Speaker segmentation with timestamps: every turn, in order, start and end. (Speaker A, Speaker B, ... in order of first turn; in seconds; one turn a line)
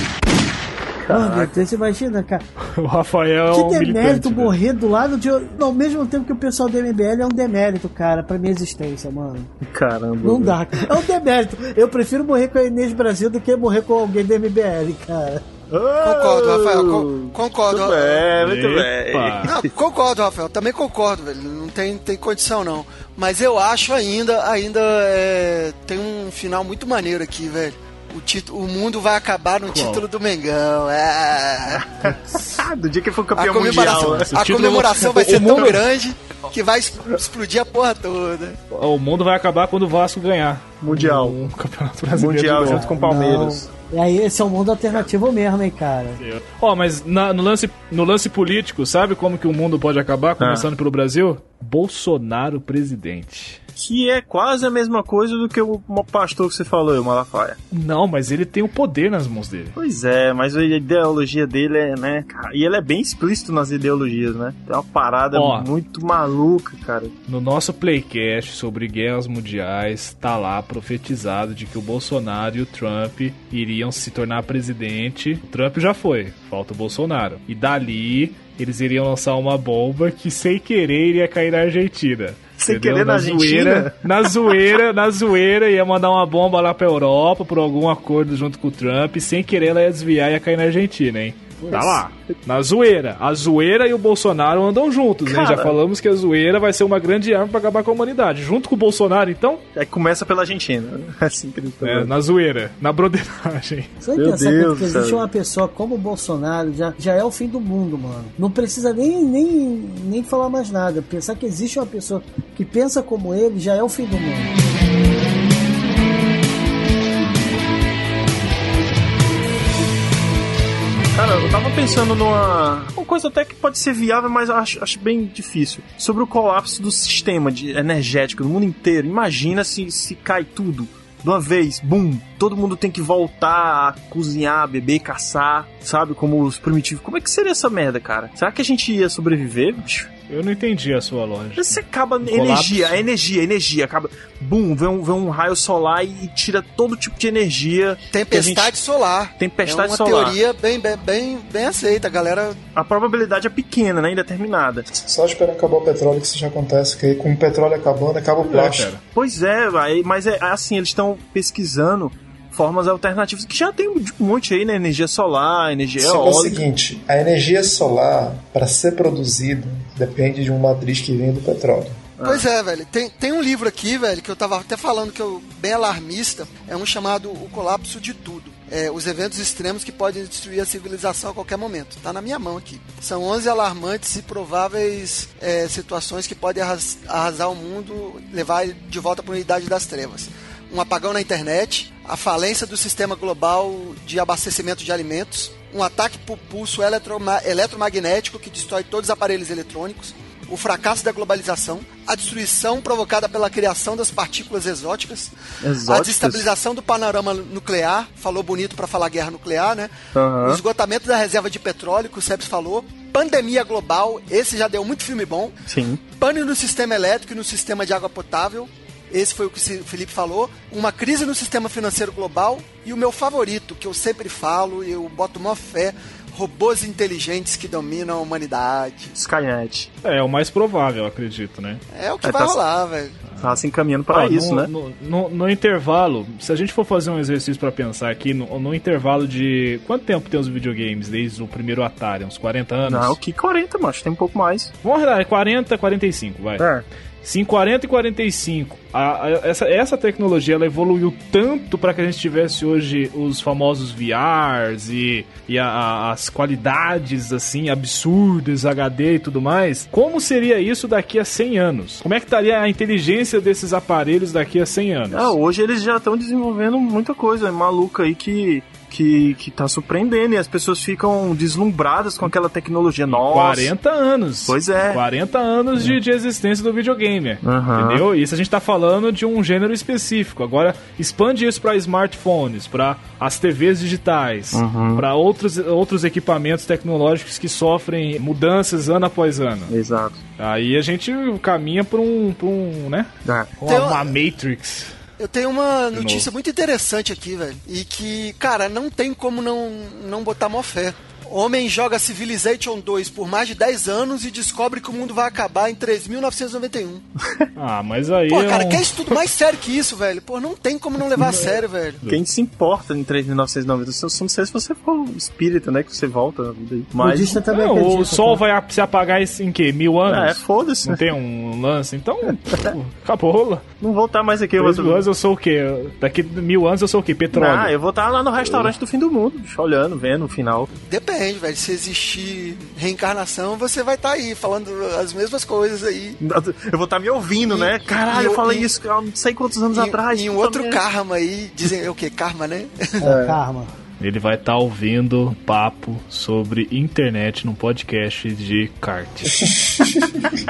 Speaker A: 1.0-1.6
Speaker B: 1.1-2.5
Speaker C: 2.6-4.6
Speaker B: 3.5-9.5
Speaker A: 9.6-10.9
Speaker B: 10.2-15.4
Speaker A: 15.7-19.7
Speaker D: 16.0-18.2
Speaker C: 18.4-19.5
Speaker D: 19.4-31.9
Speaker C: 29.7-30.0
Speaker A: 31.7-34.3
Speaker D: 33.4-38.6
Speaker C: 33.8-35.8
Speaker C: 38.7-42.8
Speaker A: 40.8-41.4
Speaker A: 42.1-43.7
Speaker B: 42.6-46.2
Speaker C: 46.2-53.6
Speaker A: 50.4-50.7
Speaker A: 53.8-57.6
Speaker C: 57.7-59.8
Speaker A: 59.8-67.1
Speaker C: 65.3-65.7
Speaker C: 67.3-99.6
Speaker A: 82.6-84.6
Speaker A: 91.7-92.0
Speaker A: 95.3-95.8
Speaker A: 99.8-102.1
Speaker C: 101.8-104.0
Speaker B: 104.0-114.6
Speaker A: 104.2-105.3
Speaker A: 121.2-140.1
Speaker C: 140.3-143.1
Speaker A: 141.6-148.8
Speaker D: 148.1-152.6
Speaker A: 149.4-150.4
Speaker A: 152.8-154.9
Speaker E: 154.9-158.9
Speaker C: 158.4-159.0
Speaker A: 159.1-166.6
Speaker E: 166.0-172.0
Speaker A: 172.2-172.5
Speaker D: 172.2-215.6
Speaker A: 205.6-206.5
Speaker A: 210.1-210.6
Speaker A: 215.7-216.0
Speaker D: 216.2-229.2
Speaker A: 229.2-229.9
Speaker C: 230.0-231.8
Speaker D: 231.9-233.2
Speaker A: 232.2-232.6
Speaker C: 233.3-243.2
Speaker A: 233.4-234.7
Speaker A: 242.9-244.7
Speaker C: 244.8-246.7
Speaker A: 246.6-246.8
Speaker C: 247.2-265.4
Speaker A: 265.1-273.7
Speaker C: 273.1-289.7
Speaker A: 274.5-275.0
Speaker A: 277.4-278.1
Speaker A: 284.5-285.1
Speaker A: 289.7-290.2
Speaker C: 290.4-294.9
Speaker A: 293.2-293.5
Speaker D: 293.7-294.1
Speaker D: 295.2-307.0
Speaker C: 295.9-296.3
Speaker C: 307.6-308.9
Speaker D: 308.3-312.0
Speaker A: 312.1-317.4
Speaker B: 317.0-318.4
Speaker C: 317.5-323.6
Speaker A: 320.1-321.0
Speaker A: 323.8-325.1
Speaker C: 324.6-327.7
Speaker A: 327.3-330.7
Speaker C: 328.5-328.7
Speaker D: 330.9-336.2
Speaker A: 336.2-340.8
Speaker D: 337.5-338.7
Speaker D: 339.7-343.0
Speaker B: 343.0-343.7
Speaker A: 343.0-343.4
Speaker C: 344.0-349.4
Speaker E: 349.4-350.3